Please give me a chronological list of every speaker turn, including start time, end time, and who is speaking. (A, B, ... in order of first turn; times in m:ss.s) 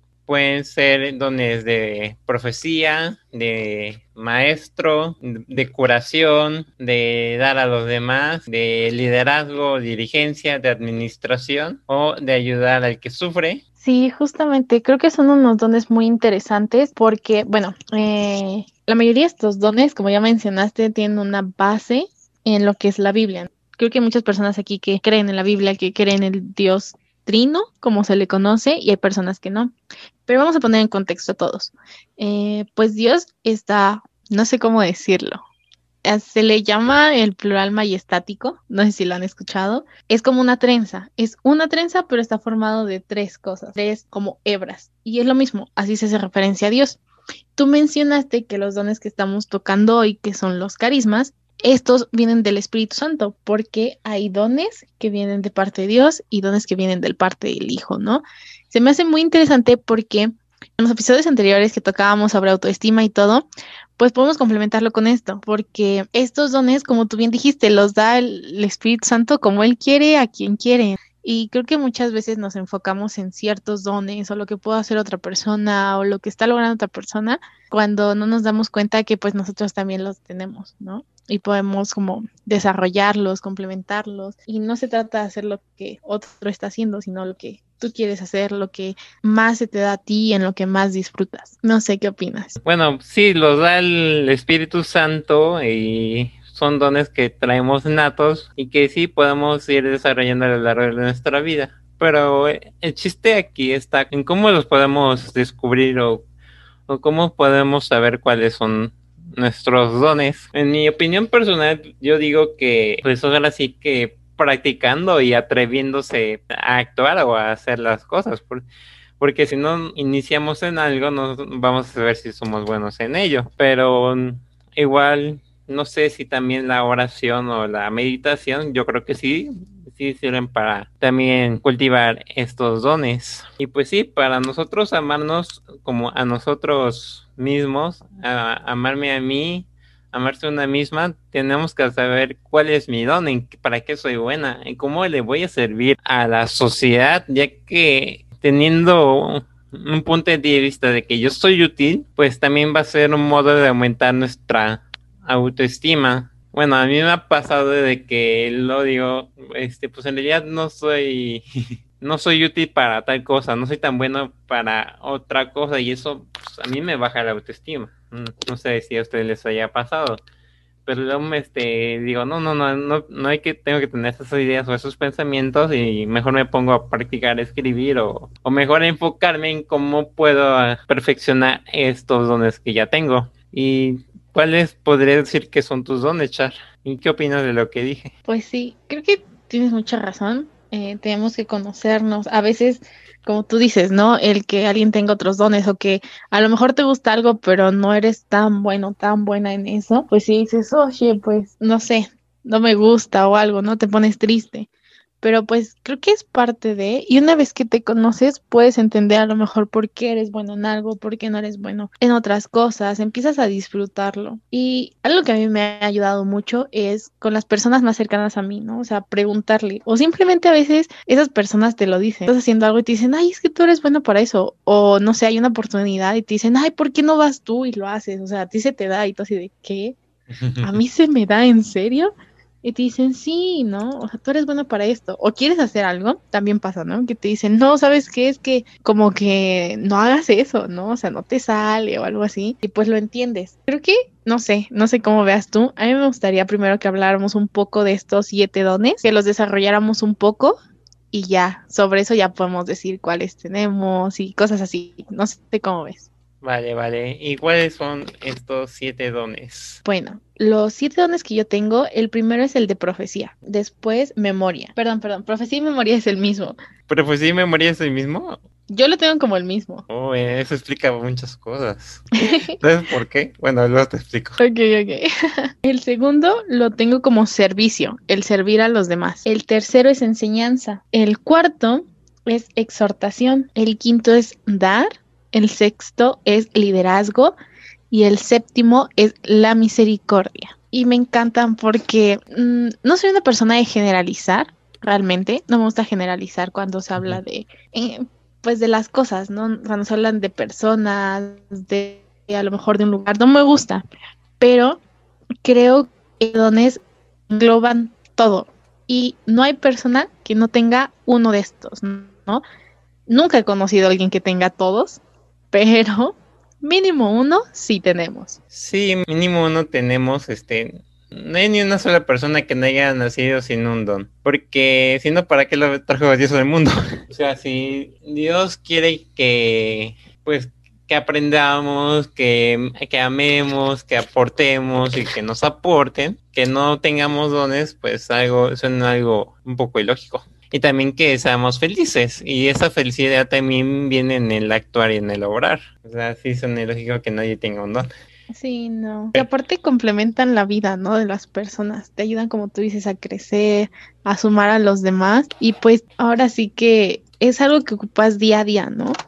0:00.3-0:13.6 A
0:13.8-0:29.7 B
0:30.3-0:35.4 B
0:36.0-0:47.0 B
0:47.6-1:03.5 B
1:04.0-1:32.6 B
1:32.6-1:46.2 A
1:46.9-1:58.6 A
1:59.2-2:41.4 A
2:42.0-2:50.2 A
2:50.9-3:08.1 A
3:08.3-3:24.7 B
3:25.2-3:50.0 B
3:50.3-3:50.8 A
3:50.6-4:10.6 B
4:11.1-4:16.1 B
4:16.4-4:19.8 A
4:19.8-4:26.6 B
4:26.9-4:28.4 A
4:28.7-4:29.9 B
4:29.9-4:32.1 A
4:32.6-4:34.4 A
4:34.4-4:35.1 B
4:35.6-4:47.4 B
4:47.9-5:03.8 B
5:04.4-5:04.8 B
5:05.4-5:12.4 B
5:13.1-5:18.4 B
5:18.5-5:47.9 A
5:48.3-5:58.9 B